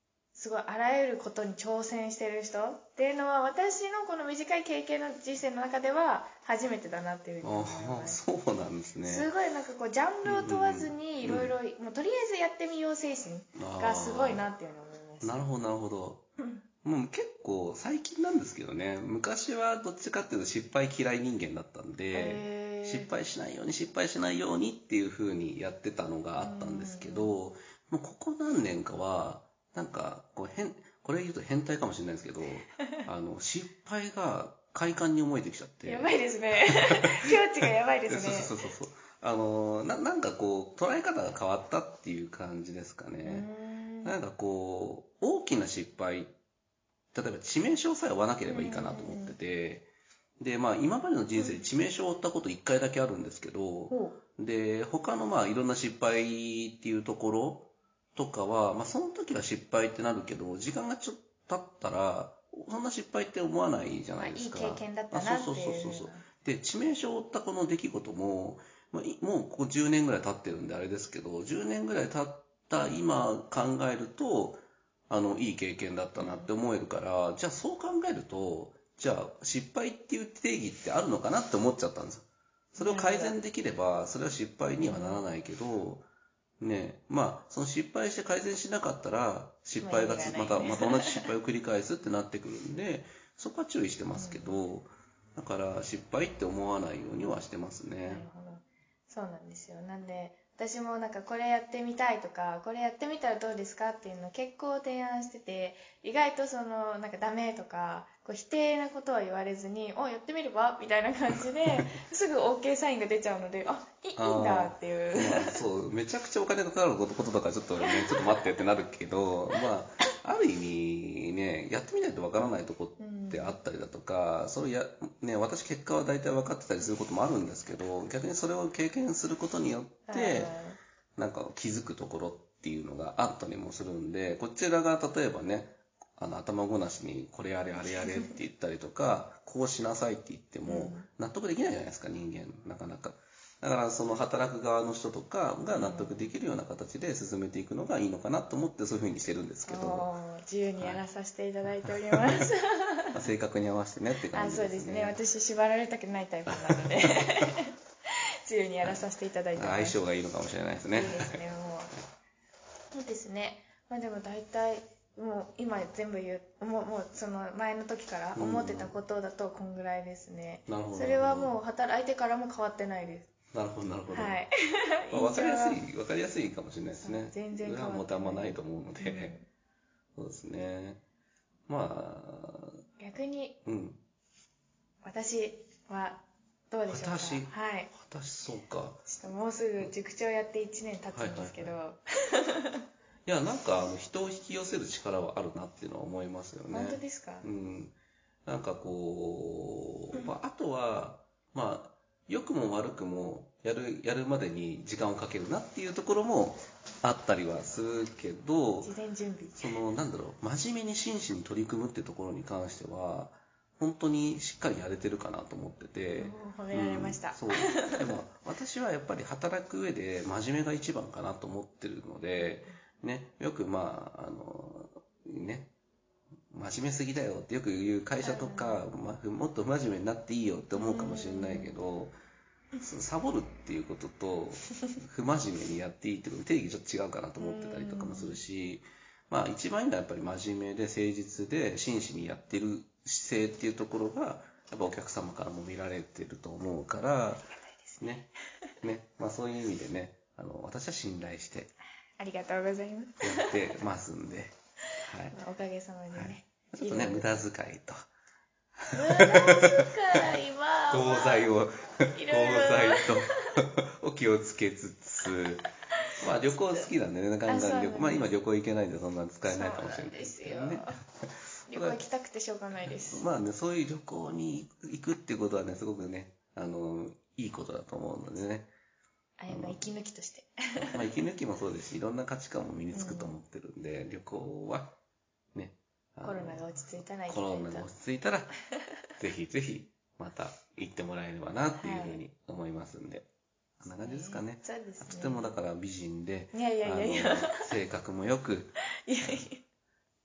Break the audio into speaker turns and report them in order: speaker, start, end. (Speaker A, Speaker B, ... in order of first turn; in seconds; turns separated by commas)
Speaker A: 0.3-8.2, Speaker B: 7.4-9.3, Speaker A: 9.0-15.4, Speaker B: 10.2-11.5, Speaker B: 13.6-14.4, Speaker B: 15.2-16.2, Speaker B: 16.8-36.1, Speaker A: 22.1-23.1, Speaker A: 26.4-27.3, Speaker A: 35.8-38.6, Speaker B: 36.8-37.3, Speaker B: 38.1-43.5, Speaker A: 43.2-44.1, Speaker B: 44.0-46.3, Speaker B: 47.1-49.9, Speaker A: 48.5-49.4, Speaker B: 50.4-86.0, Speaker A: 51.4-51.6, Speaker A: 53.9-54.2, Speaker A: 64.2-66.2, Speaker A: 76.2-76.5, Speaker A: 82.8-83.4, Speaker A: 84.8-85.3, Speaker B: 86.6-98.2, Speaker A: 89.8-91.3, Speaker A: 94.1-94.6, Speaker A: 98.0-115.6, Speaker B: 114.2-130.5, Speaker A: 117.8-118.2, Speaker A: 122.4-123.6, Speaker A: 130.1-130.8, Speaker B: 131.2-150.1, Speaker A: 140.7-141.1, Speaker A: 145.7-146.3, Speaker A: 149.7-153.2, Speaker B: 151.8-152.5, Speaker B: 153.1-155.2, Speaker A: 154.3-157.7, Speaker B: 156.5-156.9, Speaker A: 158.4-160.0, Speaker B: 159.6-161.4, Speaker A: 160.9-161.9, Speaker A: 162.9-173.3, Speaker B: 168.3-169.0, Speaker B: 170.7-171.6, Speaker B: 173.5-174.4, Speaker A: 174.1-175.8, Speaker B: 175.1-179.3, Speaker A: 177.0-179.5, Speaker B: 180.2-181.0, Speaker B: 181.7-182.8, Speaker A: 183.0-183.6, Speaker B: 183.6-184.0, Speaker A: 185.0-187.9, Speaker B: 186.9-189.0, Speaker A: 189.1-192.8, Speaker B: 191.1-191.7, Speaker B: 193.2-208.9, Speaker A: 196.7-197.5, Speaker A: 208.8-209.7, Speaker B: 209.6-225.7, Speaker A: 216.2-218.1, Speaker A: 222.4-222.7, Speaker B: 226.5-232.1, Speaker A: 228.2-228.8, Speaker A: 230.7-231.8, Speaker B: 232.8-247.5, Speaker A: 237.4-238.4, Speaker A: 247.5-248.3, Speaker B: 248.0-248.3, Speaker B: 248.8-251.7, Speaker A: 252.2-253.8, Speaker B: 253.2-255.4, Speaker A: 255.3-257.3, Speaker B: 256.1-257.9, Speaker B: 258.8-259.9, Speaker A: 258.9-261.5, Speaker B: 260.9-265.6, Speaker A: 262.1-263.6, Speaker B: 266.2-270.8, Speaker A: 266.5-266.9, Speaker A: 267.5-268.3, Speaker A: 269.4-270.9, Speaker B: 271.7-272.0, Speaker A: 271.7-273.3, Speaker B: 272.8-278.7, Speaker A: 279.4-281.0, Speaker B: 279.5-279.8, Speaker B: 280.9-284.9, Speaker A: 282.9-283.4, Speaker B: 285.5-288.5, Speaker A: 286.2-287.9, Speaker B: 289.2-293.3, Speaker A: 291.8-292.2, Speaker B: 293.8-298.7, Speaker A: 293.9-295.4, Speaker A: 296.5-297.6, Speaker A: 299.1-299.6